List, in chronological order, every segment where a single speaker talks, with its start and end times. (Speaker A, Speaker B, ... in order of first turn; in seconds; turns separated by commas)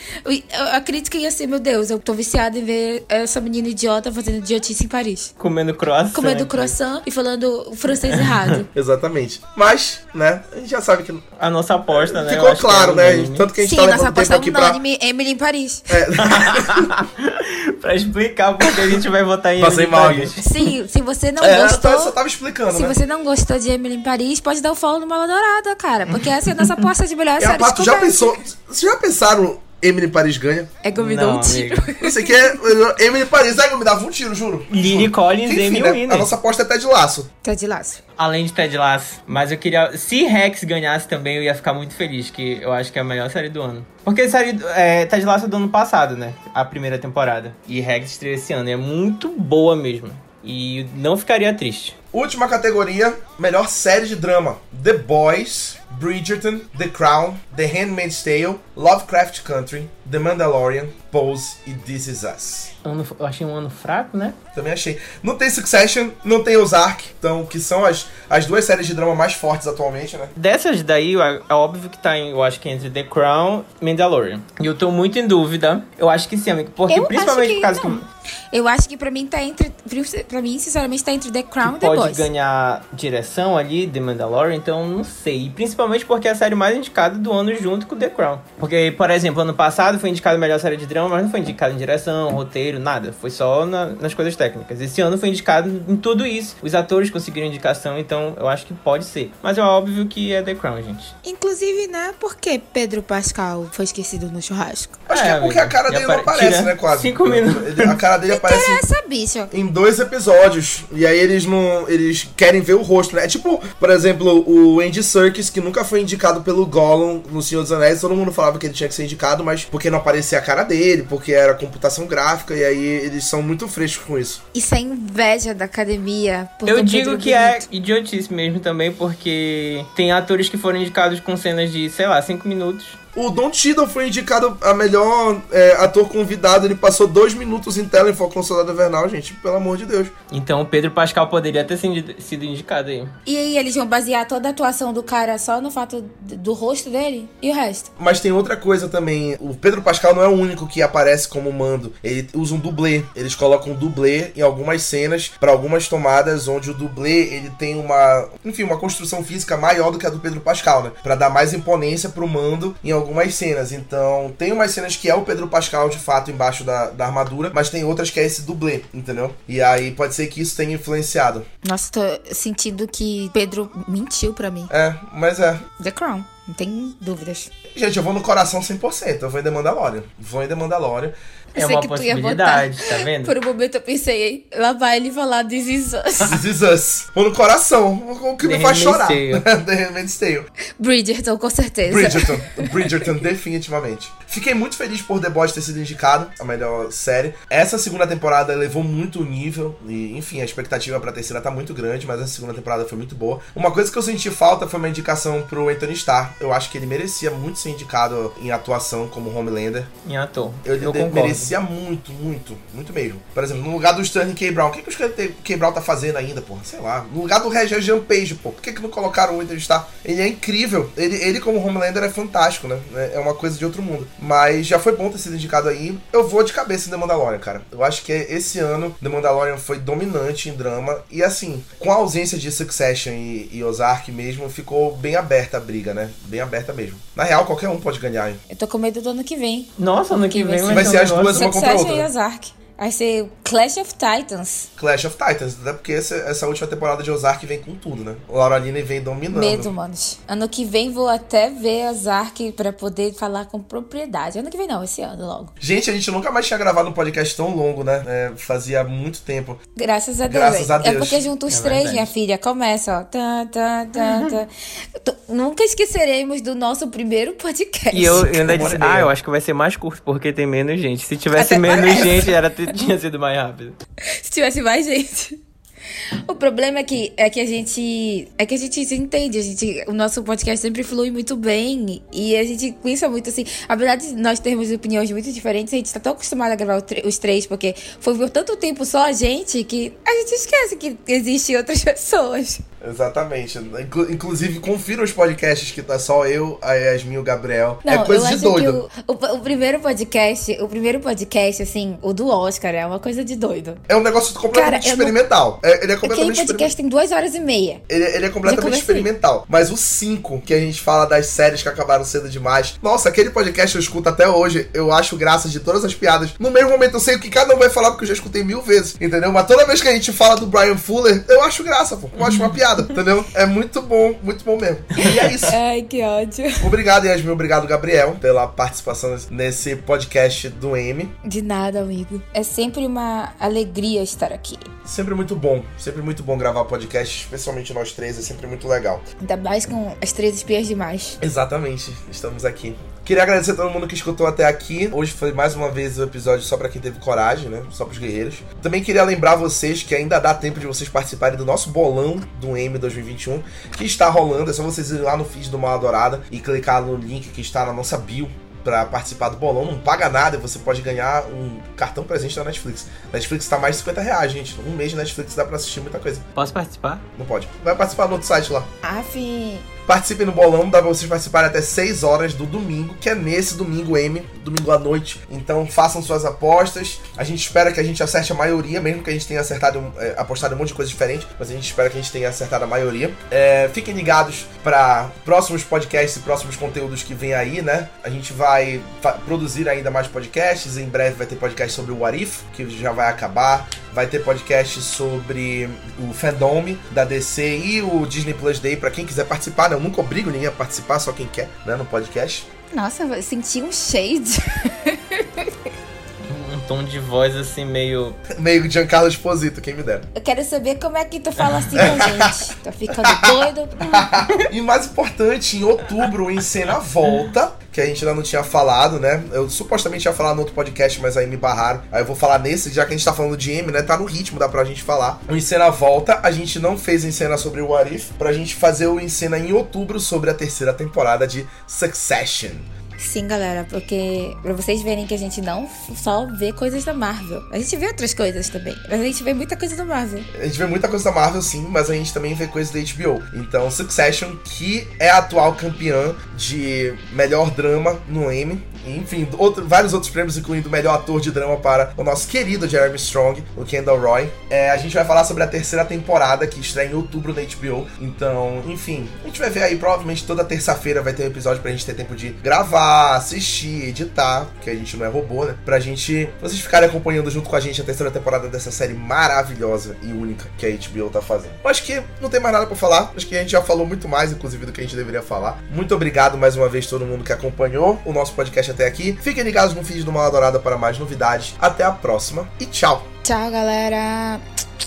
Speaker A: 0.2-5.3, Speaker B: 5.4-6.7, Speaker A: 6.1-8.7, Speaker B: 7.9-8.6, Speaker C: 8.7-11.2, Speaker B: 11.4-13.5, Speaker C: 11.9-14.8, Speaker A: 13.6-15.9, Speaker C: 15.9-16.9, Speaker B: 16.2-20.5, Speaker C: 19.6-20.4, Speaker A: 20.4-22.1, Speaker C: 21.4-22.9, Speaker A: 22.7-28.4, Speaker B: 26.1-26.8, Speaker C: 27.4-30.7, Speaker A: 30.8-32.8, Speaker B: 31.0-31.9, Speaker C: 32.0-37.3, Speaker B: 34.7-36.3, Speaker A: 37.4-38.0, Speaker B: 38.2-52.0, Speaker C: 52.1-62.7, Speaker B: 62.8-64.3, Speaker C: 64.5-70.3, Speaker B: 70.3-78.0, Speaker A: 76.9-82.3, Speaker B: 81.6-101.1, Speaker A: 101.2-105.0, Speaker C: 105.1-108.8, Speaker B: 105.1-108.0, Speaker A: 108.3-109.5, Speaker C: 109.5-124.4, Speaker A: 124.5-127.7, Speaker B: 126.7-133.0, Speaker C: 133.1-140.1, Speaker B: 140.3-143.1, Speaker A: 143.2-147.9, Speaker C: 148.0-171.4, Speaker A: 171.6-174.7, Speaker C: 174.7-175.6, Speaker A: 175.8-177.5, Speaker C: 177.7-181.1, Speaker B: 181.5-183.3, Speaker A: 181.5-186.4, Speaker C: 186.2-190.5, Speaker B: 188.4-189.4, Speaker A: 190.8-193.1, Speaker C: 191.8-209.9, Speaker B: 210.0-211.5, Speaker C: 210.6-238.4, Speaker A: 238.5-244.7, Speaker B: 239.8-241.5, Speaker C: 240.7-242.1, Speaker C: 244.8-249.7, Speaker A: 249.3-255.5, Speaker C: 255.6-259.6, Speaker A: 259.8-268.8, Speaker C: 260.3-261.2, Speaker B: 261.5-262.1, Speaker B: 264.0-264.4, Speaker B: 267.9-273.8, Speaker C: 268.0-269.1, Speaker A: 271.3-272.3, Speaker A: 274.2-275.4, Speaker A: 276.3-292.6, Speaker C: 292.8-298.8, Speaker A: 297.8-303.8, Speaker C: 303.9-306.7, Speaker A: 304.5-305.1, Speaker A: 306.0-307.8, Speaker C: 307.9-325.6, Speaker A: 308.4-309.1, Speaker B: 322.2-322.5, Speaker B: 325.0-325.3, Speaker A: 325.0-326.7, Speaker C: 326.6-331.1, Speaker A: 331.2-334.7, Speaker C: 334.8-339.0, Speaker A: 339.2-341.2, Speaker C: 341.2-366.2, Speaker B: 366.4-367.0, Speaker C: 367.2-368.7, Speaker A: 368.8-369.7, Speaker C: 369.9-402.5, Speaker A: 402.7-405.5, Speaker B: 406.2-408.2, Speaker C: 408.3-410.1, Speaker A: 410.1-414.1, Speaker B: 411.4-412.1, Speaker C: 411.7-432.6, Speaker A: 433.0-440.3, Speaker C: 440.3-483.1, Speaker A: 483.2-484.4